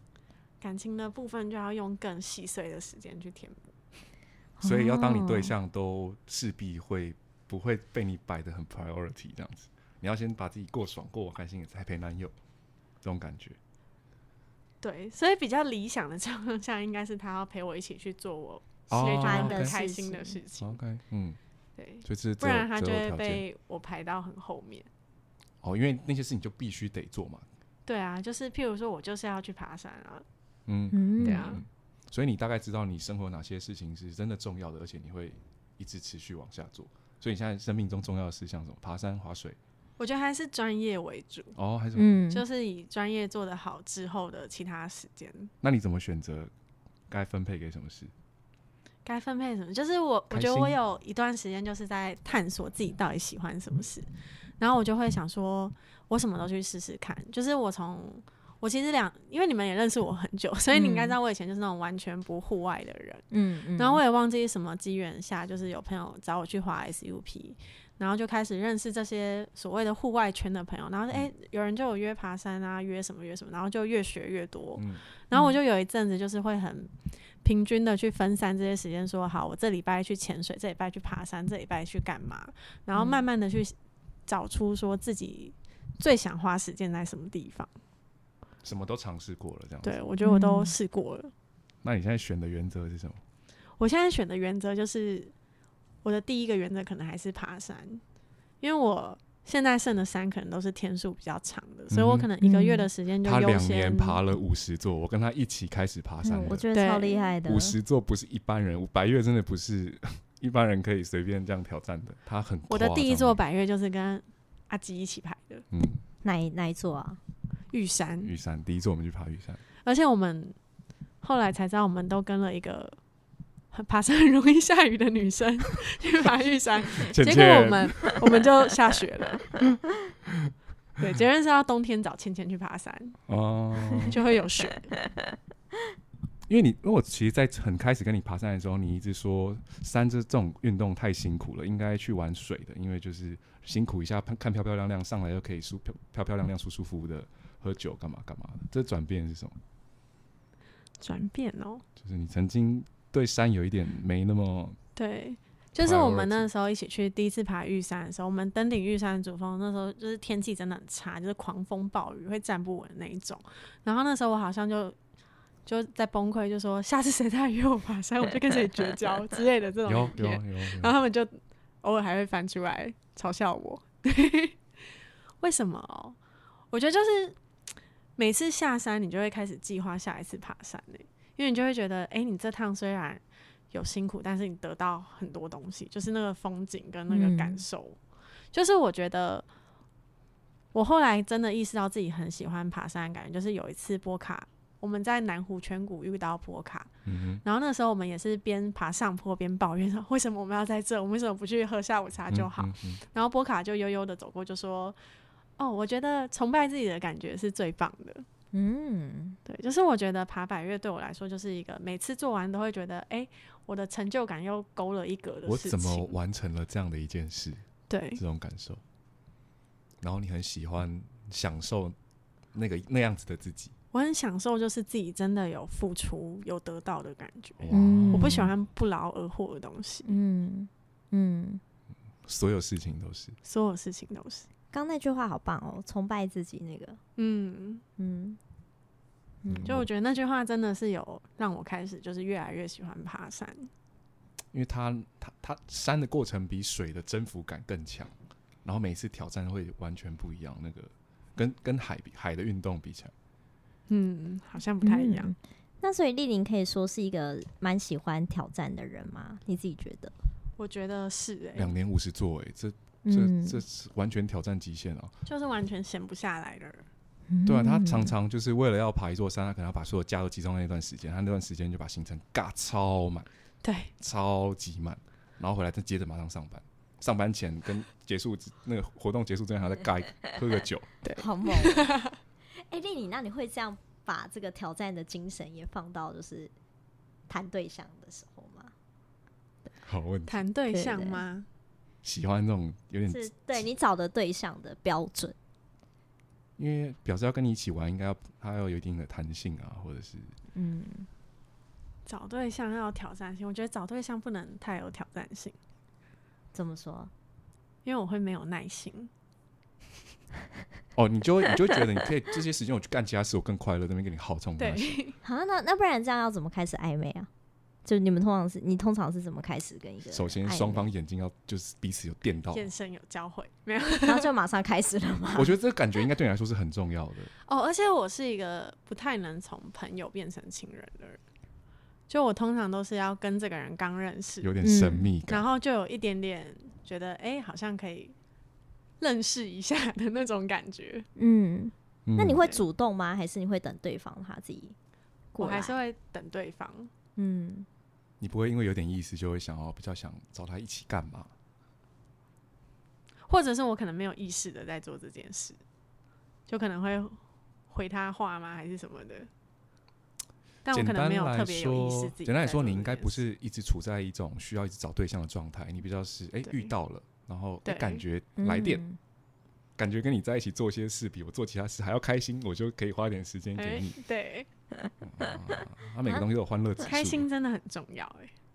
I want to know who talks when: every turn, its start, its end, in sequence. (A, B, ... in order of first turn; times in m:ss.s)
0:00.6-0:03.7 A
0:04.6-0:05.6 B
0:04.6-0:12.3 C
0:13.0-0:13.6 C
0:14.8-0:20.8 A
0:18.9-0:19.8 C
0:19.1-0:20.4 B
0:20.6-0:21.4 C
0:21.8-0:24.9 A
0:22.0-0:23.4 C
0:25.6-0:27.4 C
0:27.9-0:30.2 A
0:30.7-0:39.6 C
0:30.9-0:31.6 B
0:31.2-0:31.6 A
0:40.0-0:41.6 A
0:41.6-0:42.2 C
0:42.0-0:42.4 B
0:42.3-0:45.5 A
0:45.6-0:46.5 C
0:47.1-0:48.1 C
0:49.0-0:54.1 A
0:50.3-0:50.8 C
0:54.6-1:03.3 A
1:00.7-1:01.2 B
1:03.3-1:04.0 B
1:03.8-1:16.9 A
1:14.8-1:15.0 C
1:17.4-1:23.8 A
1:23.0-1:23.2 B
1:24.3-1:27.7 A
1:28.6-1:30.0 C
1:29.8-1:31.3 A
1:30.2-1:30.7 B
1:31.8-1:33.2 C
1:33.8-1:35.3 A
1:36.0-1:38.0 A
1:38.6-1:44.2 A
1:41.9-1:42.3 C
1:42.4-1:42.9 B
1:43.2-1:46.7 C
1:46.2-1:47.8 B
1:46.7-1:47.3 A
1:47.4-1:53.4 C
1:52.7-1:55.6 A
1:55.7-1:56.0 C
1:56.2-1:57.2 B
1:57.7-1:58.3 A
1:58.2-1:59.6 C
1:59.8-2:00.6 A
2:01.2-2:03.0 A
2:03.7-2:09.5 A
2:07.0-2:08.2 C
2:11.0-2:13.2 A
2:13.3-2:14.2 C
2:14.0-2:14.9 A
2:16.5-2:29.6 C
2:31.0-2:31.8 A
2:32.0-2:34.8 C
2:35.0-2:45.0 A
2:35.8-2:36.5 C
2:45.7-2:54.6 A
2:49.9-2:51.0 C
2:55.4-2:56.2 A
2:56.7-2:57.4 A
2:58.2-3:08.0 A
3:07.1-3:07.6 B
3:08.5-3:09.5 A
3:10.7-3:16.9 A
3:17.1-3:17.4 C
3:17.4-3:25.0 A
3:22.3-3:23.0 C
3:25.6-3:28.3 A
3:28.5-3:29.4 B
3:29.4-3:36.2 A
3:35.5-3:38.8 C
3:37.9-3:38.2 A
3:40.0-3:42.0 C
3:42.5-3:43.7 C
3:43.9-3:50.2 A
3:47.6-3:48.5 C
3:47.7-3:48.5 B
3:50.0-3:51.6 B
3:52.3-3:53.4 C
3:53.4-3:54.5 A
3:54.7-3:57.0 B
3:57.2-3:57.8 A
3:58.0-3:58.4 B
3:59.4-3:59.7 B
3:59.5-3:59.9 C
3:59.6-4:03.7 A
4:04.5-4:08.1 C
4:08.6-4:13.1 C
4:13.9-4:15.3 A
4:14.8-4:20.1 B
4:20.6-4:21.7 A
4:21.6-4:25.2 C
4:23.0-4:23.6 B
4:25.3-4:26.9 A
4:27.3-4:28.2 B
4:27.5-4:33.3 C
4:33.6-4:33.9 A
4:34.0-4:40.9 C
4:41.0-4:42.2 A
4:41.2-4:41.9 B
4:42.6-4:46.5 B
4:47.3-4:48.7 B
4:49.8-4:50.4 C
4:50.3-4:51.5 A
4:50.7-4:51.2 B
4:52.0-4:53.6 C
4:53.1-4:55.4 B
4:56.6-5:00.4 C
5:00.5-5:01.1 B
5:02.1-5:05.6 A
5:06.5-5:07.1 B
5:07.8-5:09.1 A
5:11.0-5:15.0 C
5:14.6-5:15.2 A
5:15.2-5:17.3 B
5:17.8-5:20.9 B
5:20.1-5:22.7 C
5:22.5-5:24.3 A
5:24.0-5:25.6 B
5:25.3-5:27.3 C
5:27.5-5:31.2 A
5:32.1-5:34.5 A
5:34.4-5:35.4 C
5:34.6-5:35.1 B
5:35.3-5:38.2 A
5:39.0-5:41.1 A
5:41.2-5:44.8 B
5:42.1-5:42.4 C
5:42.4-5:42.6 A
5:45.3-5:45.8 B
5:45.4-5:46.9 A
5:47.2-5:47.7 B
5:48.2-5:51.3 C
5:53.3-5:55.6 A
5:56.5-5:57.2 A
5:57.7-5:59.3 A
6:00.6-6:03.2 A
6:00.7-6:08.8 C
6:06.4-6:06.7 A
6:07.6-6:08.0 A
6:08.4-6:09.0 B
6:09.8-6:14.0 C
6:13.6-6:14.5 A
6:15.0-6:17.2 C
6:16.8-6:18.3 A